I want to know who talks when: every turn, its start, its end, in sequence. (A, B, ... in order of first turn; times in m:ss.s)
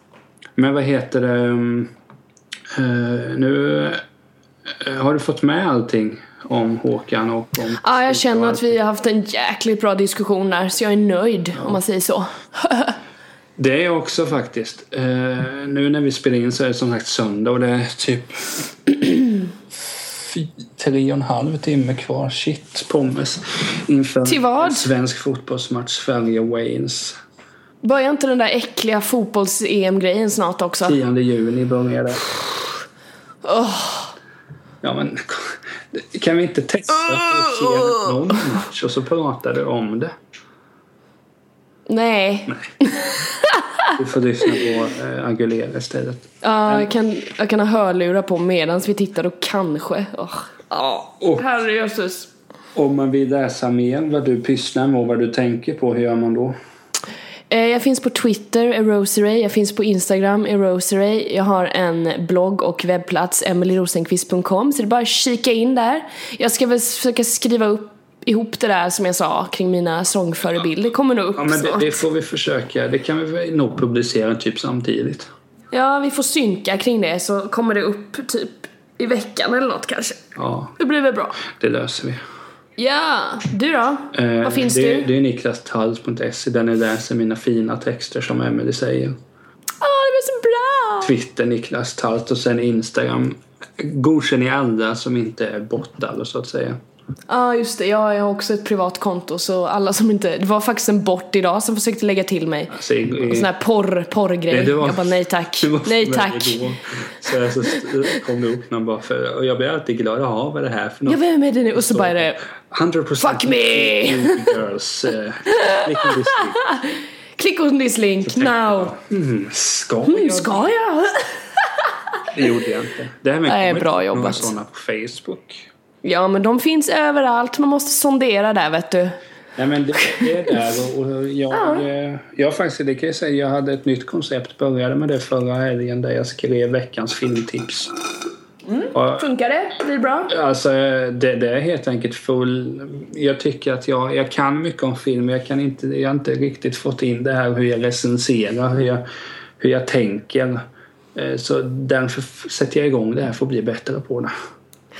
0:00.6-0:01.9 A
0:02.7-0:04.0 A
0:04.7-0:08.8 A
0:07.8-0:13.0 B
0:13.6-0:19.5 A
0:20.1-0:27.2 A
0:24.2-0:24.8 B
0:27.8-0:31.0 B
0:30.8-0:32.3 A
0:33.4-0:34.1 B
0:34.8-0:40.1 A
0:41.9-0:43.9 B
0:43.9-0:46.9 A
0:46.4-0:52.3 B
0:52.8-0:56.6 A
0:57.5-1:12.0 B
1:11.4-1:15.3 A
1:15.7-1:20.2 B
1:20.4-1:20.7 A
1:20.8-1:21.4 B
1:21.4-1:22.2 A
1:22.8-1:25.1 B
1:24.1-1:29.2 A
1:29.8-1:31.1 B
1:31.0-1:36.8 A
1:37.3-1:46.6 B
1:42.7-1:43.5 A
1:44.5-1:51.2 A
1:51.1-1:52.4 B
1:51.8-1:56.6 A
1:53.2-1:54.5 B
1:55.5-1:59.0 B
1:58.3-2:00.7 A
2:00.1-2:01.9 B
2:02.3-2:05.7 A
2:03.5-2:04.5 B
2:06.0-2:09.2 B
2:09.6-2:17.9 A
2:11.5-2:11.8 B
2:18.7-2:20.3 B
2:18.9-2:19.2 A
2:20.3-2:29.0 A
2:29.6-2:30.6 A
2:31.2-2:34.3 A